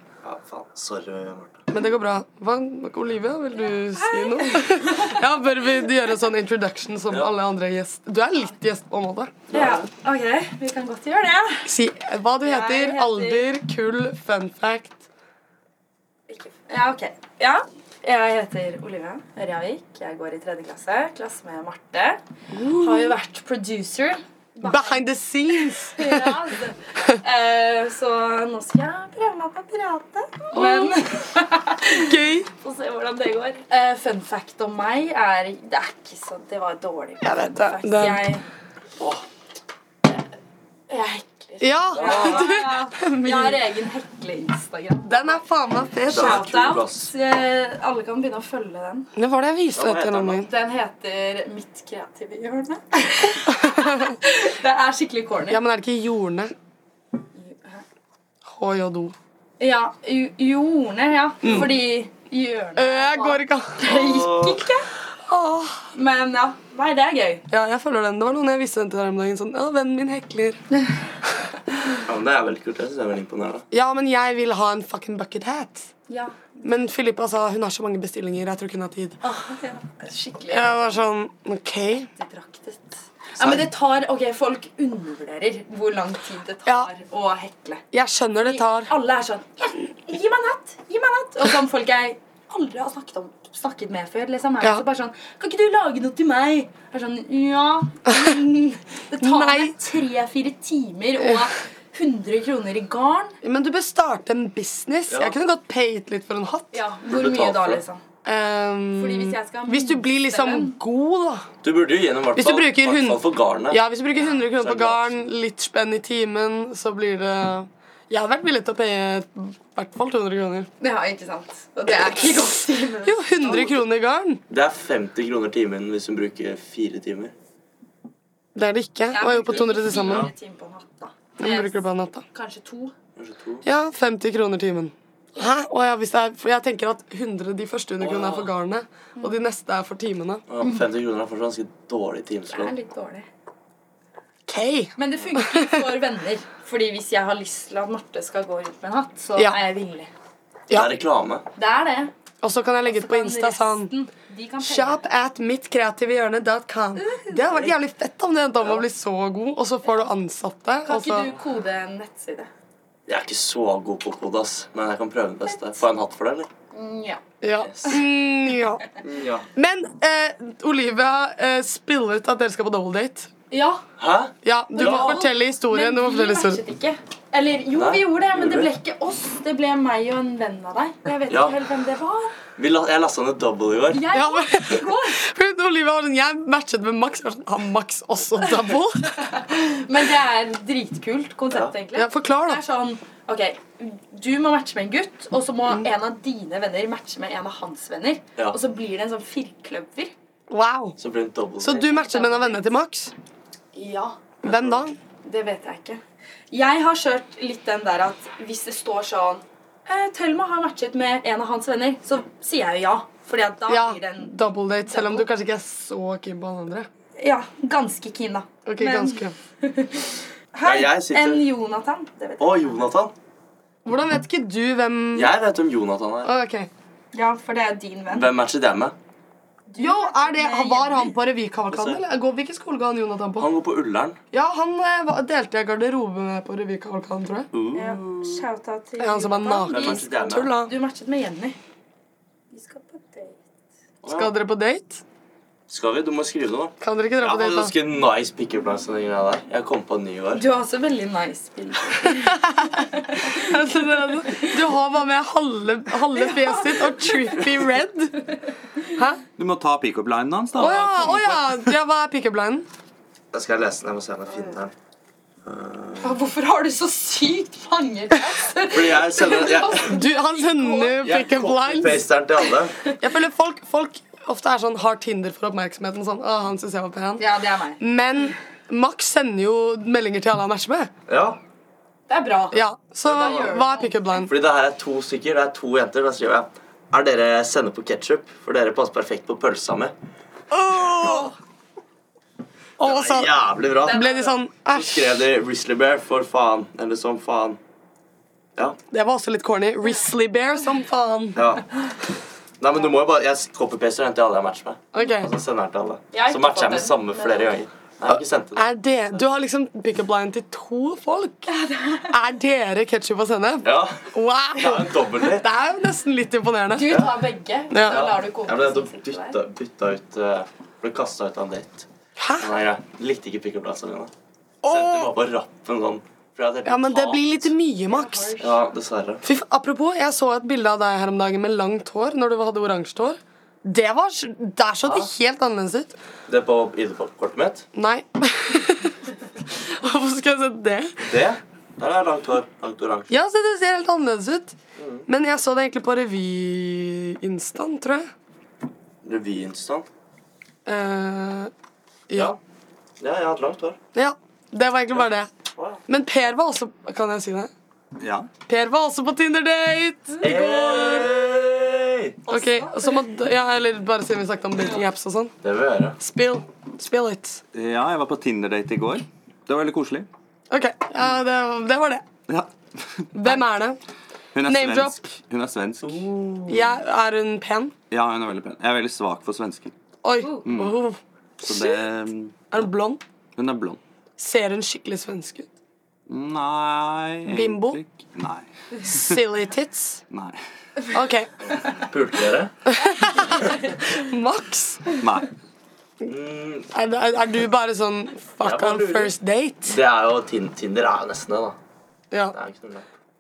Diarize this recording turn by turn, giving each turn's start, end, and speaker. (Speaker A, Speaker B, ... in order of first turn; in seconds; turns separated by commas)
Speaker A: 0.2-1.6, Speaker B: 1.7-9.3, Speaker C: 3.9-5.2, Speaker A: 9.5-9.9, Speaker C: 9.5-11.7, Speaker B: 11.7-15.0, Speaker C: 12.4-13.5, Speaker C: 16.3-22.2, Speaker B: 22.5-23.2, Speaker C: 22.8-25.1, Speaker B: 24.6-26.4, Speaker C: 26.0-32.0, Speaker B: 30.5-31.0, Speaker B: 31.9-32.5, Speaker C: 32.6-38.5, Speaker B: 37.2-38.3, Speaker C: 40.9-45.4, Speaker B: 41.6-43.6, Speaker A: 42.0-42.5, Speaker B: 45.1-46.4, Speaker A: 46.1-47.1, Speaker C: 46.1-49.1, Speaker B: 49.2-50.5, Speaker A: 49.8-50.4, Speaker C: 50.4-55.6, Speaker B: 53.5-54.1, Speaker B: 55.5-56.5, Speaker C: 57.4-57.8, Speaker B: 58.5-59.1, Speaker C: 59.6-64.9, Speaker B: 61.4-61.7, Speaker B: 62.8-63.8, Speaker A: 63.9-64.7, Speaker B: 65.3-65.8, Speaker C: 65.9-67.4, Speaker B: 67.5-70.6, Speaker A: 72.1-73.7, Speaker B: 73.7-75.9, Speaker C: 76.1-76.3, Speaker B: 76.6-79.2, Speaker C: 79.2-80.9, Speaker B: 80.5-82.1, Speaker C: 82.2-87.8, Speaker B: 87.9-88.9, Speaker C: 88.4-103.3, Speaker B: 99.2-99.8, Speaker B: 103.4-106.8, Speaker A: 105.1-105.4, Speaker C: 106.7-108.0, Speaker A: 107.1-107.8, Speaker B: 108.2-111.5, Speaker C: 109.0-110.8, Speaker A: 111.6-113.8, Speaker B: 112.4-120.7, Speaker A: 114.6-115.1, Speaker C: 120.8-123.8, Speaker B: 123.0-124.4, Speaker A: 124.5-127.3, Speaker B: 128.6-130.3, Speaker C: 129.1-132.9, Speaker A: 129.6-130.3, Speaker B: 131.4-132.2, Speaker A: 133.2-133.6, Speaker B: 133.7-140.4, Speaker A: 138.0-138.5, Speaker A: 140.5-142.7, Speaker C: 142.5-143.3, Speaker B: 144.5-145.7, Speaker C: 145.0-150.1, Speaker A: 150.7-151.4, Speaker C: 151.6-152.1, Speaker B: 152.4-153.9, Speaker C: 152.9-155.0, Speaker B: 154.6-161.3, Speaker C: 157.0-157.4, Speaker C: 160.9-162.5, Speaker A: 163.1-166.5, Speaker C: 166.7-167.2, Speaker B: 167.4-168.8, Speaker A: 167.6-167.9, Speaker A: 169.0-169.5, Speaker B: 169.6-173.3, Speaker C: 173.5-173.8, Speaker A: 174.0-175.2, Speaker B: 174.4-176.6, Speaker C: 174.8-182.3, Speaker A: 177.8-178.7, Speaker A: 181.3-181.6, Speaker A: 182.6-184.0, Speaker C: 183.9-185.2, Speaker B: 184.1-189.1, Speaker C: 189.3-200.1, Speaker B: 191.9-192.6, Speaker B: 200.5-201.0, Speaker A: 201.0-201.8, Speaker B: 201.6-203.1, Speaker C: 201.8-202.6, Speaker C: 203.7-204.2, Speaker B: 204.4-205.0, Speaker A: 204.5-204.8, Speaker C: 205.2-215.3, Speaker B: 213.7-216.9, Speaker C: 217.2-222.9, Speaker B: 218.7-219.3, Speaker A: 220.7-221.5, Speaker A: 222.4-223.1, Speaker B: 223.8-225.3, Speaker A: 225.2-226.3, Speaker B: 226.2-226.7, Speaker C: 227.1-228.3, Speaker A: 228.1-228.9, Speaker C: 229.7-231.2, Speaker B: 229.8-233.5, Speaker A: 231.7-232.0, Speaker A: 233.4-234.2, Speaker B: 234.3-237.5, Speaker A: 237.5-238.4, Speaker C: 237.7-241.6, Speaker B: 239.0-240.7, Speaker A: 239.7-240.5, Speaker C: 242.5-243.4, Speaker A: 244.0-244.3, Speaker B: 244.1-245.0, Speaker A: 245.7-250.4, Speaker B: 246.8-247.7, Speaker C: 250.3-253.5, Speaker B: 252.0-258.3, Speaker C: 256.2-257.4, Speaker B: 258.9-259.2, Speaker D: 259.4-261.6, Speaker B: 260.6-262.7, Speaker A: 263.3-264.7, Speaker A: 265.4-266.1, Speaker C: 266.0-271.0, Speaker A: 268.7-270.0, Speaker B: 269.8-272.1, Speaker A: 271.0-272.8, Speaker B: 273.0-277.2, Speaker C: 277.2-277.8, Speaker B: 277.8-280.9, Speaker A: 281.1-281.4, Speaker C: 282.1-284.0, Speaker B: 282.5-284.3, Speaker A: 284.3-289.9, Speaker B: 290.5-291.3, Speaker B: 292.8-295.2, Speaker A: 292.8-294.0, Speaker C: 293.8-294.4, Speaker A: 294.7-297.6, Speaker B: 298.9-301.4, Speaker A: 301.4-301.7, Speaker A: 302.6-308.6, Speaker B: 304.9-305.3, Speaker C: 306.1-307.6, Speaker B: 308.1-311.5, Speaker C: 311.5-312.1, Speaker B: 312.1-317.0, Speaker A: 313.6-314.0, Speaker A: 314.6-315.5, Speaker C: 316.7-319.4, Speaker A: 316.9-317.3, Speaker B: 317.7-318.1, Speaker A: 317.8-321.9, Speaker B: 322.2-322.5, Speaker A: 322.4-324.1, Speaker B: 324.6-325.1, Speaker A: 324.7-327.5, Speaker B: 326.6-328.4, Speaker C: 327.9-328.6, Speaker A: 328.4-329.2, Speaker B: 329.2-336.0, Speaker A: 334.8-335.1, Speaker A: 336.3-337.7, Speaker B: 337.8-339.0, Speaker B: 339.7-340.9, Speaker A: 341.1-343.1, Speaker B: 343.1-348.1, Speaker A: 344.8-345.0, Speaker A: 349.0-349.9, Speaker B: 350.7-351.5, Speaker B: 352.1-352.4, Speaker A: 352.1-352.4, Speaker A: 353.0-353.8, Speaker B: 353.9-355.3, Speaker A: 355.6-355.8, Speaker B: 355.9-357.5, Speaker D: 358.0-358.3, Speaker B: 358.5-361.1, Speaker A: 360.2-362.2, Speaker C: 362.3-363.0, Speaker B: 362.3-365.3, Speaker A: 365.4-366.0, Speaker B: 366.0-367.4, Speaker D: 367.5-370.1, Speaker B: 370.5-372.0, Speaker D: 372.3-373.4, Speaker B: 373.1-373.8, Speaker D: 374.3-376.1, Speaker B: 374.4-375.0, Speaker A: 375.8-376.5, Speaker B: 376.5-377.7, Speaker D: 377.9-379.7, Speaker B: 380.0-381.8, Speaker D: 380.4-380.8, Speaker D: 381.4-382.4, Speaker B: 382.5-383.0, Speaker D: 383.4-383.8, Speaker B: 384.2-385.5, Speaker D: 386.1-388.5, Speaker B: 387.3-387.8, Speaker B: 388.8-390.0, Speaker D: 390.1-390.4, Speaker B: 390.9-391.3, Speaker A: 391.7-392.5, Speaker B: 392.7-394.9, Speaker D: 395.0-395.3, Speaker A: 396.1-396.7, Speaker B: 396.7-399.8, Speaker A: 398.4-399.1, Speaker A: 399.7-401.6, Speaker A: 402.3-402.9